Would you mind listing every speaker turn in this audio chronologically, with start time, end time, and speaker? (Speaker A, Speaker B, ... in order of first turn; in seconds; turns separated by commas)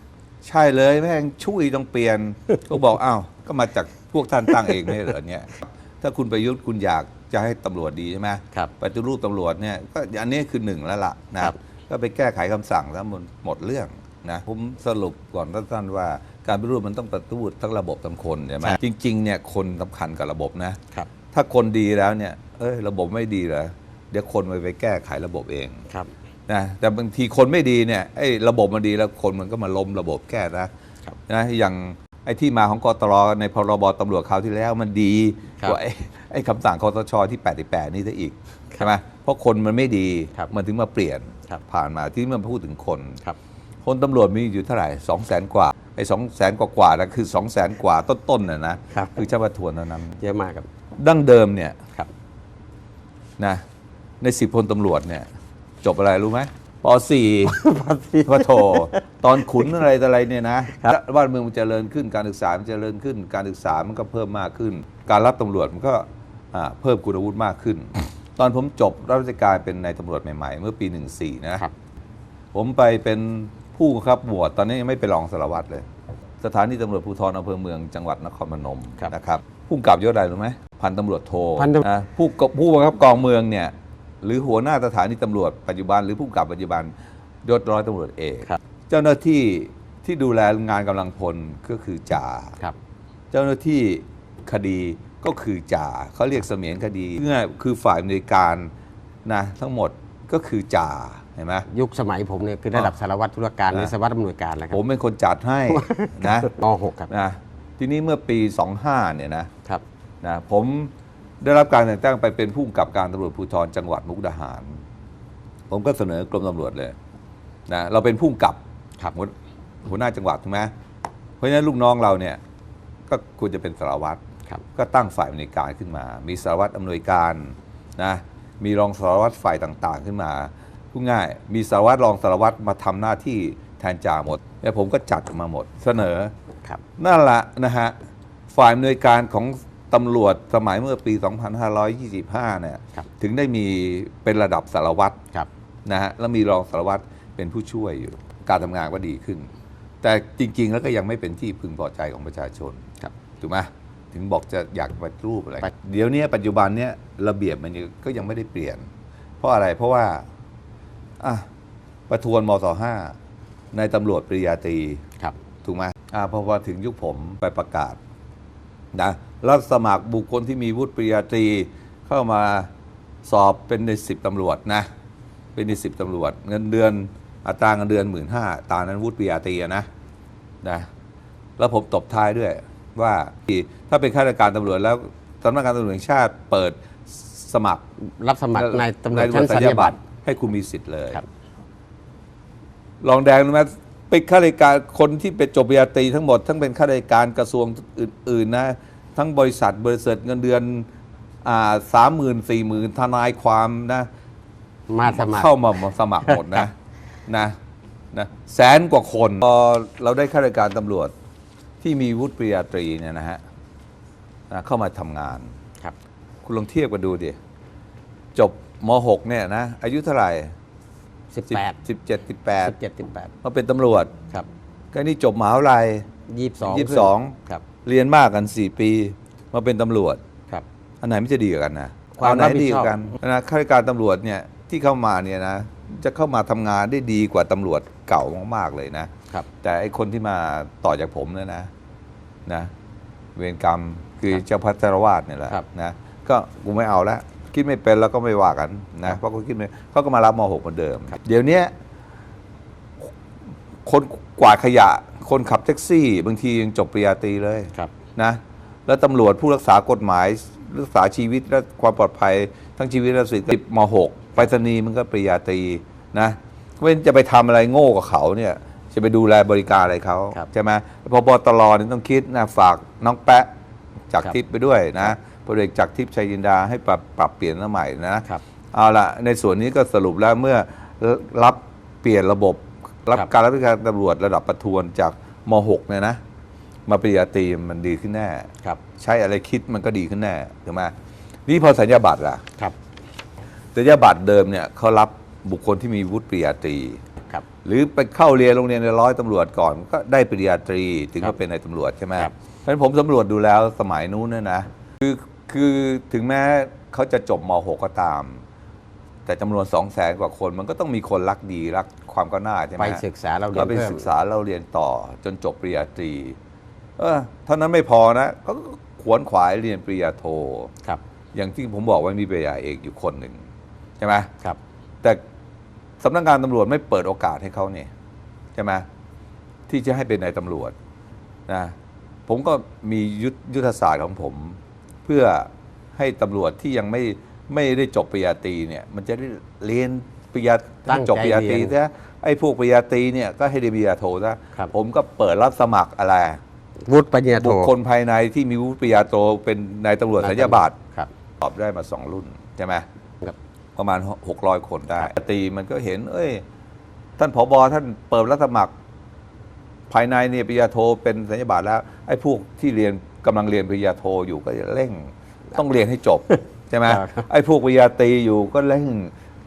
Speaker A: 0.4-20.8, Speaker A: 21.3-25.9, Speaker A: 26.5-30.7, Speaker A: 31.3-43.2, Speaker A: 43.8-50.2, Speaker B: 50.2-50.6, Speaker A: 51.0-51.8, Speaker A: 54.2-55.3, Speaker A: 55.8-57.6, Speaker B: 57.4-59.7, Speaker A: 58.2-71.6, Speaker A: 72.5-75.8, Speaker A: 76.4-86.9, Speaker B: 81.6-81.8, Speaker A: 87.4-92.6, Speaker A: 93.3-98.7, Speaker A: 99.2-101.7, Speaker B: 101.7-104.8, Speaker A: 104.7-106.5, Speaker B: 105.7-107.1, Speaker A: 107.1-109.5, Speaker A: 110.2-114.8, Speaker A: 115.7-116.9, Speaker A: 117.7-118.6, Speaker A: 119.8-120.7, Speaker A: 121.4-122.4, Speaker A: 123.1-124.2, Speaker A: 124.7-136.3, Speaker A: 137.0-137.9, Speaker A: 138.5-145.2, Speaker A: 145.8-149.5, Speaker A: 150.0-152.8, Speaker A: 153.4-158.9, Speaker A: 159.4-160.2, Speaker A: 161.2-161.4, Speaker A: 162.1-163.2, Speaker A: 163.7-165.0, Speaker A: 165.6-168.0, Speaker A: 168.9-172.7, Speaker A: 173.2-174.9, Speaker A: 175.5-179.9, Speaker A: 181.6-187.8, Speaker B: 188.2-190.0, Speaker A: 188.5-191.2, Speaker A: 193.0-200.9, Speaker A: 201.4-204.1, Speaker B: 204.9-205.6, Speaker A: 205.0-206.7, Speaker B: 206.2-206.6, Speaker A: 207.3-207.5, Speaker A: 208.1-211.1, Speaker A: 211.8-213.4, Speaker A: 214.5-215.5, Speaker A: 216.4-217.3, Speaker A: 218.3-220.5, Speaker B: 221.3-221.8, Speaker A: 221.5-222.7, Speaker B: 222.6-223.3, Speaker A: 223.4-224.1, Speaker A: 224.9-226.1, Speaker B: 226.3-227.6, Speaker A: 226.6-230.2, Speaker A: 231.0-239.1, Speaker B: 232.1-233.1, Speaker A: 239.6-241.7, Speaker A: 243.3-251.7, Speaker A: 253.8-273.5, Speaker A: 274.1-286.2, Speaker A: 286.9-290.9, Speaker A: 291.5-292.4, Speaker A: 293.7-297.0, Speaker A: 297.6-308.4, Speaker A: 309.2-316.4, Speaker B: 312.8-314.1, Speaker A: 317.0-320.7, Speaker A: 321.3-323.4, Speaker A: 324.0-324.3, Speaker A: 326.0-327.9, Speaker A: 328.5-328.9, Speaker A: 329.7-330.7, Speaker A: 331.5-331.7, Speaker A: 332.3-346.4, Speaker B: 340.9-341.7, Speaker B: 346.9-347.7, Speaker A: 347.4-350.8, Speaker B: 350.2-351.1, Speaker A: 351.4-352.8, Speaker A: 353.8-356.4, Speaker A: 357.2-358.7, Speaker A: 359.9-369.1, Speaker B: 366.9-367.2